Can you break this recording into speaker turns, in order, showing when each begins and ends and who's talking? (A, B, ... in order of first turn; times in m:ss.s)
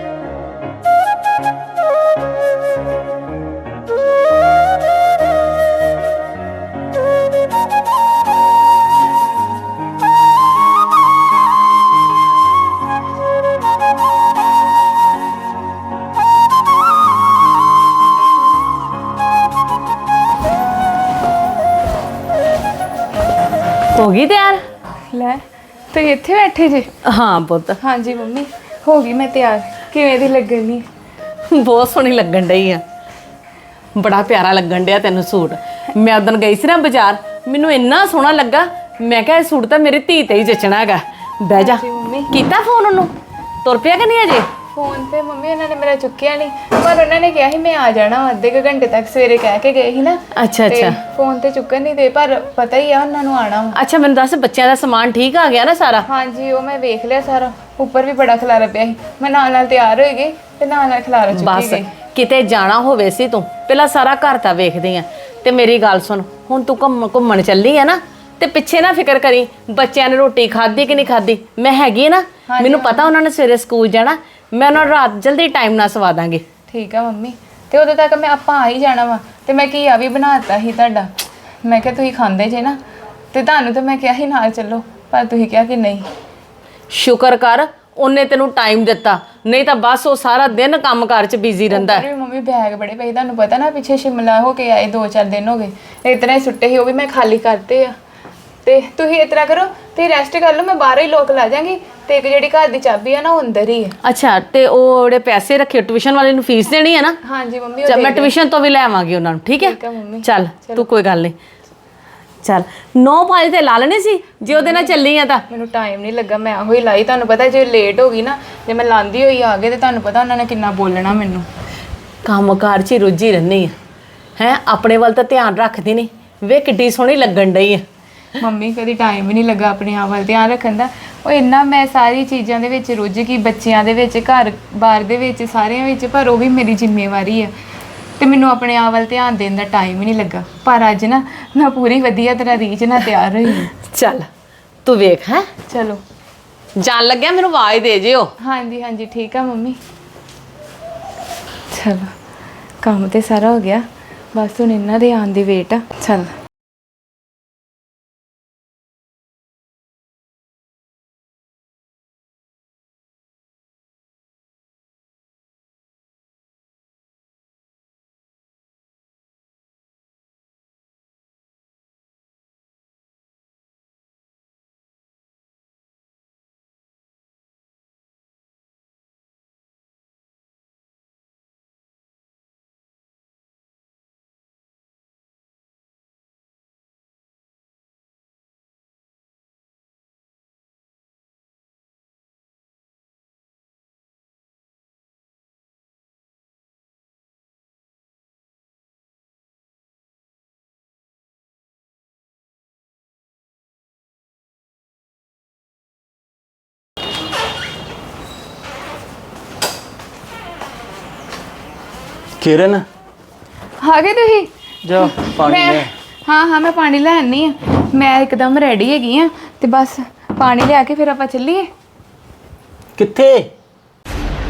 0:24.0-0:24.6 A
0:25.1-0:26.9 B
0:27.0-0:27.8 A
0:27.8-0:30.8 B
0:31.5-0:32.8 A
0:34.0-0:43.1 A
0:41.6-0:42.4 B
0:43.6-0:44.5 A
0:44.7-0:53.8 B
0:50.3-0:51.0 A
0:53.7-0:56.1 A
0:56.1-1:01.9 B
1:01.3-1:16.4 A
1:12.5-1:13.1 B
1:16.7-1:21.1 B
1:21.6-1:22.8 B
1:23.3-1:26.1 B
1:26.9-1:32.1 A
1:31.7-1:38.0 B
1:38.6-1:44.0 B
1:44.0-1:47.2 A
1:47.2-1:48.3 B
1:47.9-1:51.4 A
1:49.6-1:50.9 B
1:52.4-1:55.4 A
1:55.5-2:01.5 B
2:02.2-2:03.8 A
2:04.4-2:07.8 A
2:08.4-2:17.5 B
2:18.2-2:23.7 B
2:23.5-2:24.3 A
2:24.8-2:25.5 A
2:25.7-2:26.0 B
2:26.8-2:28.3 A
2:28.4-2:29.8 B
2:31.7-2:32.1 B
2:32.8-2:36.4 B
3:32.4-3:32.8 C
3:33.8-3:41.7 B
3:34.8-3:35.9 C
3:43.0-3:43.5 C